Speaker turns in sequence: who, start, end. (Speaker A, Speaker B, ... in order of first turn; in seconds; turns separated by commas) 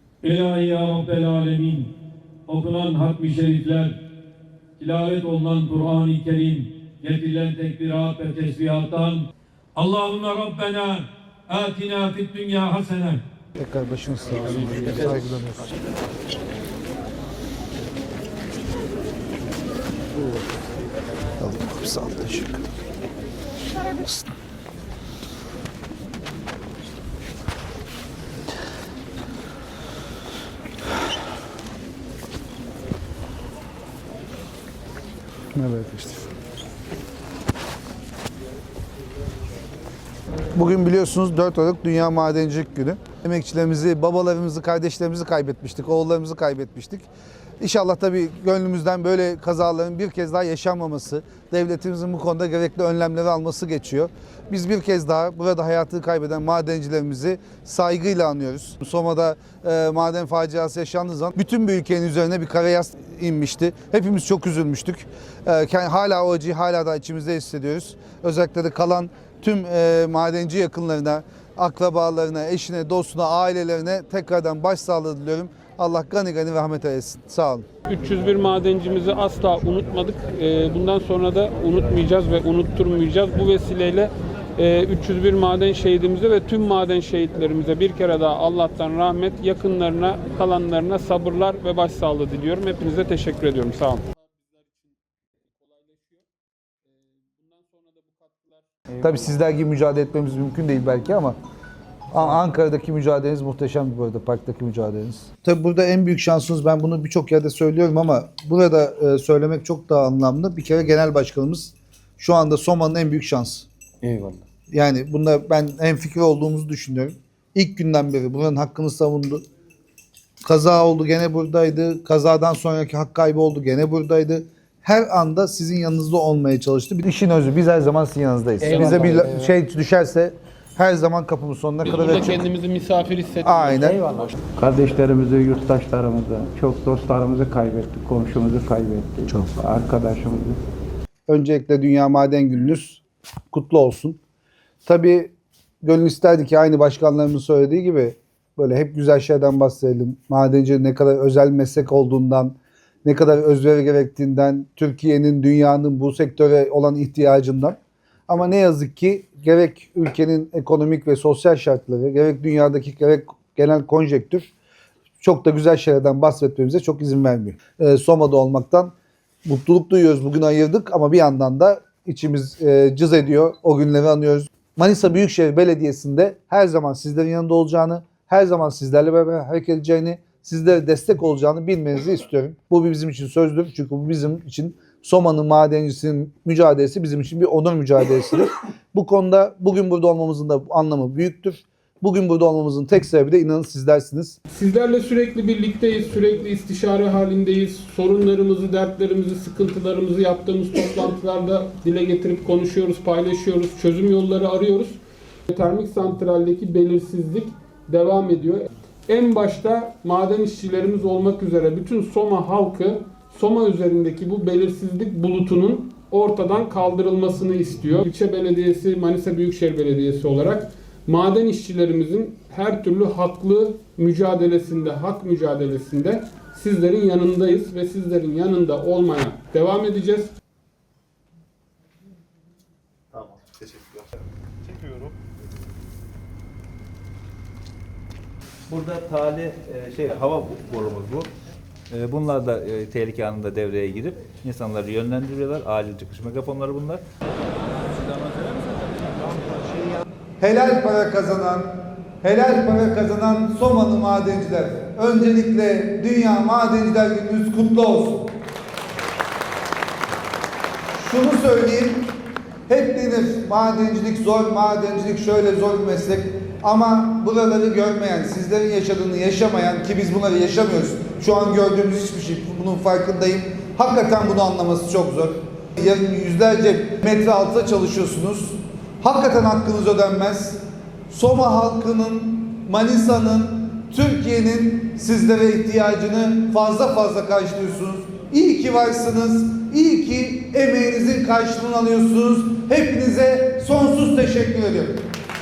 Speaker A: 0.2-1.9, Speaker A: 2.5-3.9, Speaker A: 4.8-9.2, Speaker A: 9.8-13.2, Speaker B: 13.6-15.7, Speaker B: 21.4-22.6, Speaker B: 35.5-36.3, Speaker B: 40.5-47.1, Speaker B: 47.6-77.7, Speaker C: 77.9-94.9, Speaker C: 95.5-96.2, Speaker C: 97.4-98.7, Speaker B: 99.0-101.4, Speaker B: 102.1-113.7, Speaker D: 114.0-114.4, Speaker B: 114.7-119.4, Speaker B: 120.4-132.5, Speaker C: 128.6-129.2, Speaker D: 128.8-129.3, Speaker C: 131.8-134.3, Speaker B: 133.4-134.0, Speaker D: 134.0-140.6, Speaker B: 139.3-139.5, Speaker B: 141.3-144.2, Speaker B: 144.8-157.8, Speaker B: 158.3-164.5, Speaker B: 165.2-168.9, Speaker B: 169.4-194.4, Speaker C: 194.5-230.3, Speaker E: 238.7-241.3, Speaker E: 241.9-247.0, Speaker B: 250.4-258.3, Speaker B: 260.9-262.0, Speaker B: 262.7-295.0